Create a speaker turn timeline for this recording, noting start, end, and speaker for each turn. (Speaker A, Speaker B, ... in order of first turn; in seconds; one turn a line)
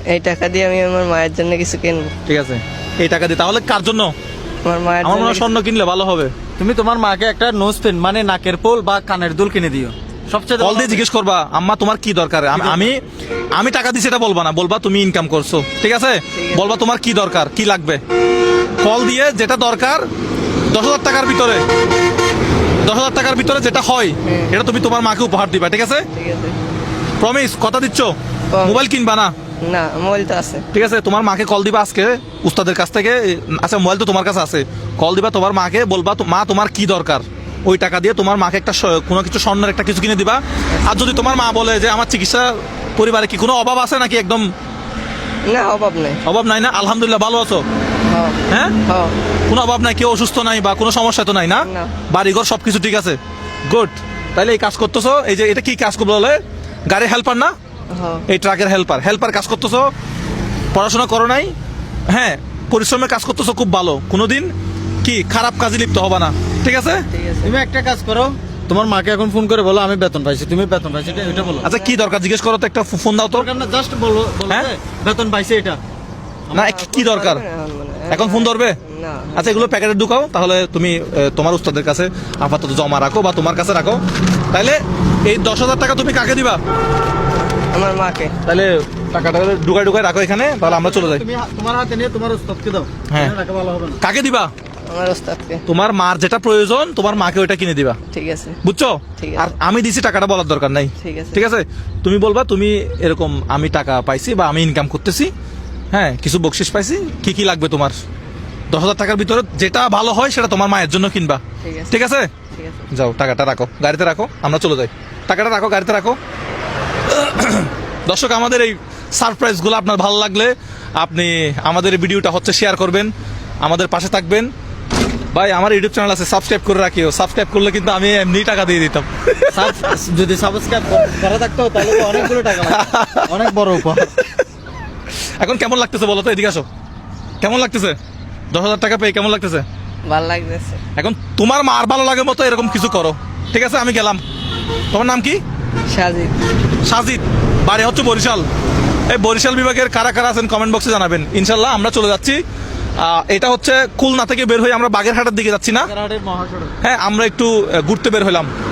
Speaker A: 0.1-2.1
Speaker B: 2.2-4.1
Speaker A: 4.6-5.5
Speaker B: 5.0-6.3
Speaker C: 6.6-11.0
Speaker B: 10.6-18.0
Speaker C: 12.5-12.9
Speaker A: 16.3-16.8
Speaker B: 18.8-20.1
Speaker B: 20.7-21.6
Speaker B: 22.8-26.1
Speaker A: 24.2-24.6
Speaker A: 26.1-26.6
Speaker B: 27.2-29.3
Speaker A: 28.5-28.8
Speaker A: 29.6-30.6
Speaker B: 30.7-44.5
Speaker A: 40.7-41.3
Speaker A: 45.5-46.2
Speaker B: 46.2-47.6
Speaker A: 48.1-49.1
Speaker B: 48.5-48.8
Speaker B: 49.5-57.5
Speaker A: 51.7-51.9
Speaker A: 57.9-58.2
Speaker B: 58.3-59.9
Speaker B: 60.7-61.5
Speaker B: 62.1-67.0
Speaker A: 67.1-67.5
Speaker C: 67.4-71.7
Speaker A: 71.2-72.0
Speaker B: 71.6-73.5
Speaker C: 73.3-75.8
Speaker B: 76.5-77.4
Speaker A: 76.5-79.7
Speaker B: 78.1-78.8
Speaker B: 79.3-86.6
Speaker A: 87.6-88.3
Speaker B: 88.4-91.2
Speaker C: 90.6-94.0
Speaker B: 93.1-93.3
Speaker B: 94.0-94.5
Speaker A: 94.9-95.6
Speaker B: 95.7-98.0
Speaker A: 98.1-98.6
Speaker B: 98.6-105.3
Speaker A: 99.2-99.5
Speaker A: 101.0-101.4
Speaker B: 105.9-108.0
Speaker B: 108.7-112.3
Speaker A: 111.6-112.9
Speaker B: 112.9-116.2
Speaker B: 117.1-124.5
Speaker B: 125.3-129.7
Speaker C: 129.5-134.2
Speaker B: 132.0-133.4
Speaker B: 134.0-134.4
Speaker B: 135.4-136.7
Speaker B: 137.4-138.0
Speaker B: 138.5-139.6
Speaker A: 140.1-140.8
Speaker B: 140.9-144.2
Speaker B: 144.9-145.4
Speaker A: 145.9-146.3
Speaker B: 146.8-148.5
Speaker B: 149.1-152.4
Speaker B: 153.0-155.9
Speaker C: 155.8-156.7
Speaker B: 156.8-158.5